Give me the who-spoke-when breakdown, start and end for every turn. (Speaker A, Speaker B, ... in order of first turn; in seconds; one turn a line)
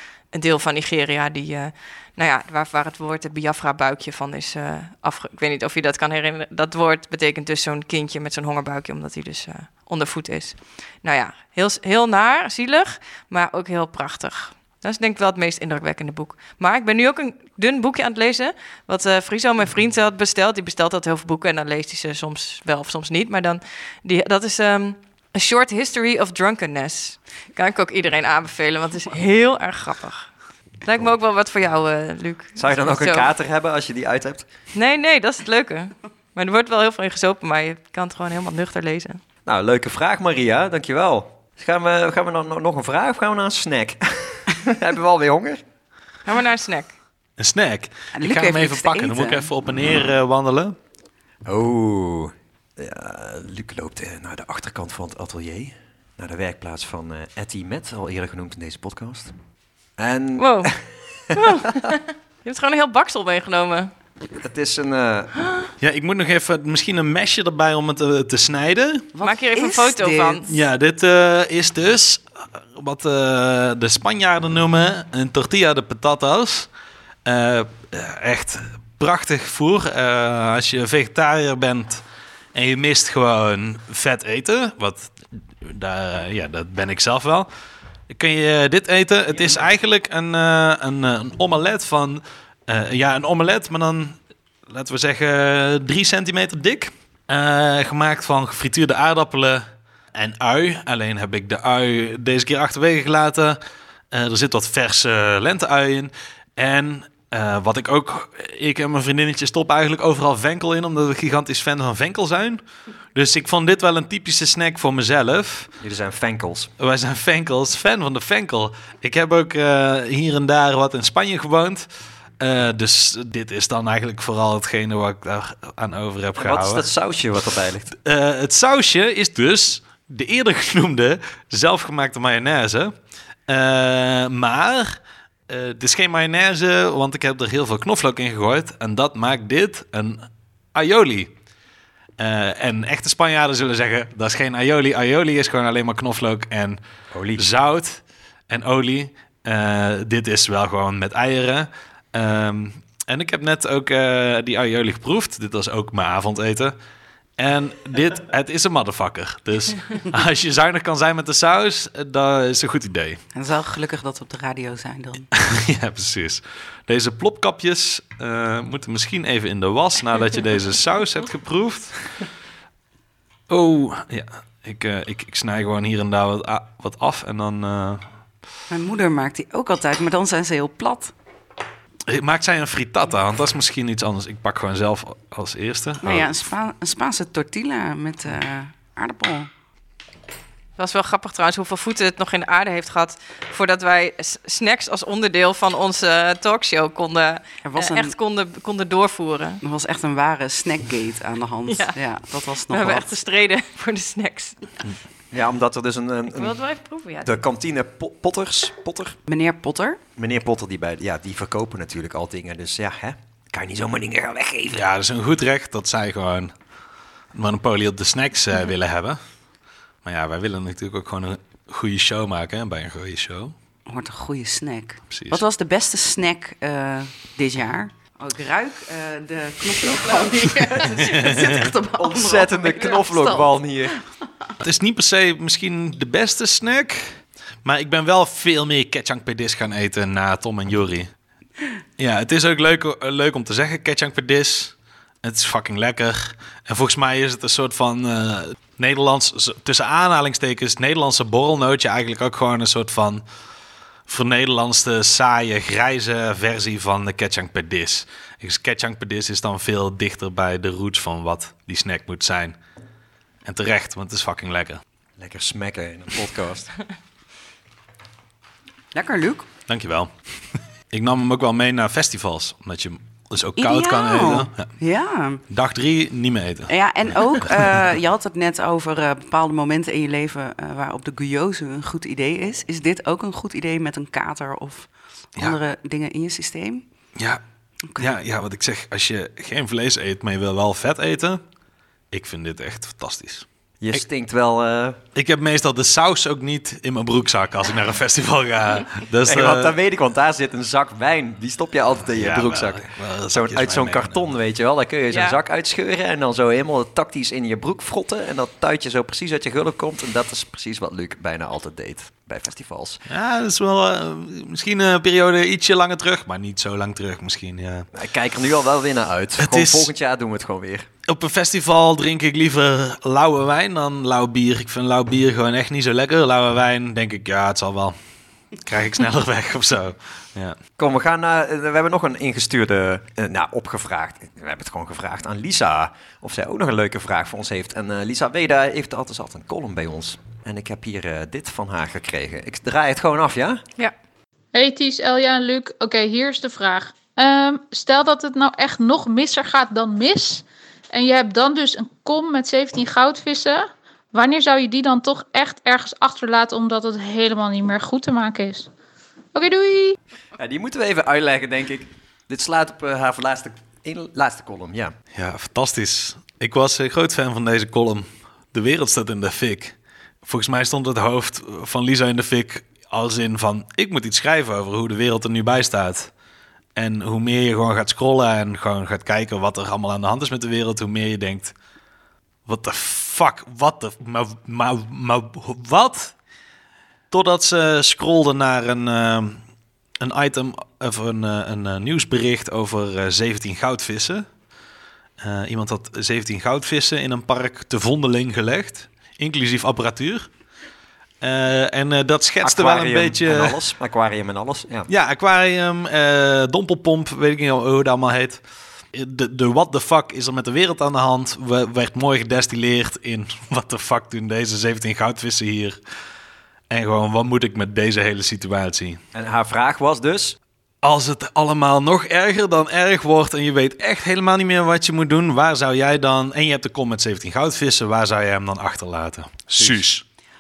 Speaker A: 0.3-30.3
Speaker A: 30.8-33.3
Speaker B: 32.6-34.5
Speaker A: 34.7-39.2
Speaker B: 39.5-45.6
Speaker A: 46.2-46.9
Speaker C: 47.4-50.8
Speaker D: 48.1-49.5
Speaker B: 51.5-59.3
Speaker B: 60.0-61.7
Speaker A: 60.4-60.7
Speaker A: 61.3-63.9
Speaker B: 64.4-65.3
Speaker C: 65.8-69.1
Speaker D: 69.1-70.6
Speaker A: 69.2-70.5
Speaker C: 70.5-76.7
Speaker C: 77.2-82.0
Speaker C: 82.5-87.5
Speaker C: 88.1-94.2
Speaker C: 94.7-103.6
Speaker C: 104.1-112.6
Speaker C: 113.1-115.7
Speaker B: 115.8-116.7
Speaker C: 116.8-121.8
Speaker C: 122.4-126.9
Speaker B: 126.3-127.9
Speaker C: 128.0-132.9
Speaker C: 133.5-141.3
Speaker C: 142.2-146.8
Speaker B: 147.1-147.4
Speaker C: 147.4-156.7
Speaker C: 157.4-163.2
Speaker D: 163.3-165.3
Speaker C: 165.3-172.0
Speaker C: 173.5-178.0
Speaker D: 178.7-181.1
Speaker C: 182.1-186.3
Speaker D: 186.0-189.5
Speaker A: 190.8-199.6
Speaker D: 197.6-198.1
Speaker D: 199.6-203.1
Speaker A: 201.7-202.0
Speaker A: 202.6-204.7
Speaker B: 205.3-206.6
Speaker A: 206.3-207.3
Speaker B: 207.2-209.2
Speaker D: 209.3-210.0
Speaker B: 210.2-214.8
Speaker C: 214.7-216.5
Speaker C: 217.3-219.2
Speaker C: 220.0-223.5
Speaker D: 223.9-233.6
Speaker C: 225.1-225.4
Speaker C: 231.1-231.7
Speaker B: 232.0-233.9
Speaker C: 234.6-241.1
Speaker C: 242.0-253.2
Speaker C: 254.1-262.6
Speaker C: 263.4-264.8
Speaker B: 265.2-266.7
Speaker D: 268.9-269.5
Speaker C: 269.7-270.1
Speaker C: 270.9-274.7
Speaker D: 273.6-275.4
Speaker C: 275.5-277.8
Speaker D: 276.7-286.8
Speaker C: 287.9-291.4
Speaker C: 292.1-294.0
Speaker B: 293.8-295.0
Speaker C: 295.1-299.8
Speaker B: 299.2-313.0
Speaker C: 302.1-304.2
Speaker A: 305.1-305.4
Speaker C: 313.1-317.9
Speaker B: 317.9-320.9
Speaker C: 319.4-319.9
Speaker C: 321.1-327.9
Speaker C: 328.6-330.6
Speaker B: 330.8-343.6
Speaker E: 344.5-358.7
Speaker E: 359.3-359.9
Speaker B: 360.4-364.9
Speaker C: 365.1-376.1
Speaker C: 376.8-381.5
Speaker C: 382.4-386.1
Speaker C: 387.1-389.4
Speaker C: 390.0-394.3
Speaker C: 395.2-400.3
Speaker C: 401.2-403.6
Speaker B: 402.4-404.9
Speaker C: 404.9-408.4
Speaker C: 408.9-415.8
Speaker C: 416.7-419.0
Speaker B: 419.1-420.4
Speaker C: 420.8-430.0
Speaker B: 429.5-429.8